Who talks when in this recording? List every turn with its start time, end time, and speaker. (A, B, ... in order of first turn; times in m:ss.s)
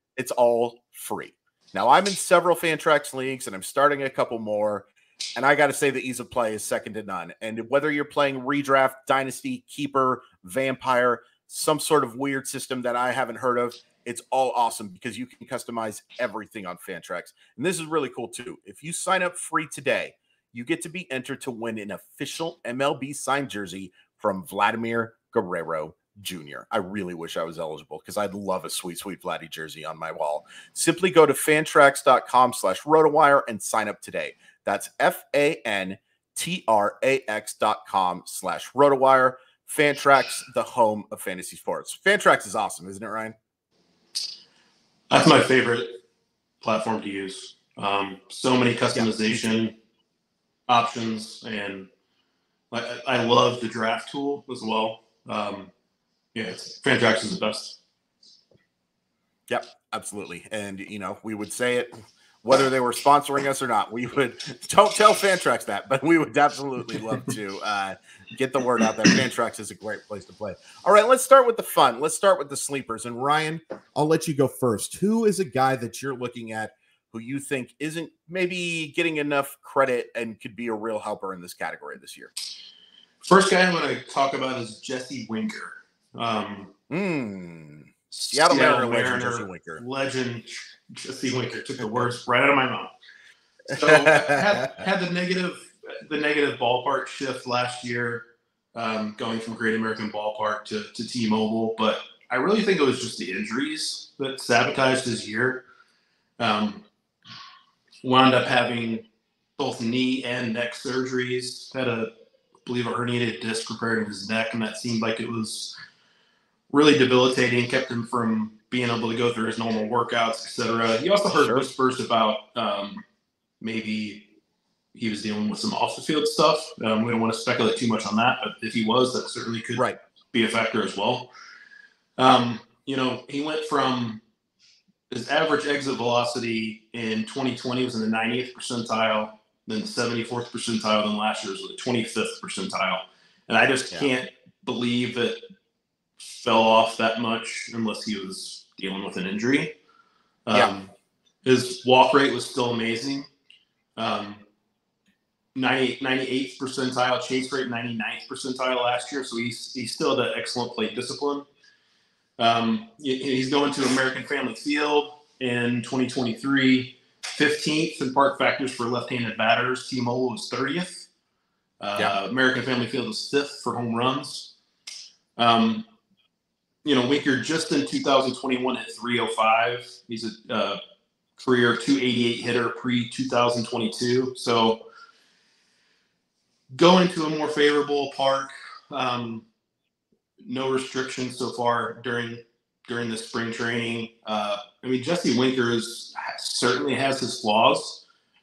0:00.2-0:43.4 A
0:45.1-0:45.9 B
0:46.6-0:49.7 B
0:48.9-0:49.5 A
0:50.7-0:51.9 B
0:52.7-0:55.7 B
0:56.3-0:57.8 B
0:59.5-1:22.3 A
1:23.2-1:26.7 B
1:26.9-1:29.8 A
1:28.1-1:32.9 B
1:33.7-1:34.8 A
1:33.7-1:45.6 B
1:46.4-1:46.8 B
1:48.0-1:49.0 B
1:49.6-1:52.1 B
1:52.6-1:55.7 B
1:56.7-2:03.0 B
2:01.4-2:01.7 A
2:03.6-2:04.2 B
2:04.9-2:11.3 B
2:12.2-2:14.2 B
2:15.1-2:25.4 B
2:26.2-2:29.7 B
2:30.5-2:30.9 B
2:31.4-2:33.3 B
2:34.0-2:34.4 B
2:35.5-2:41.5 B
2:42.4-2:51.1 B
2:51.8-2:54.5 B
2:55.4-2:55.9 B
2:56.8-3:00.8 B
3:01.4-3:04.8 B
3:06.7-3:09.5 B
3:10.4-3:18.0 B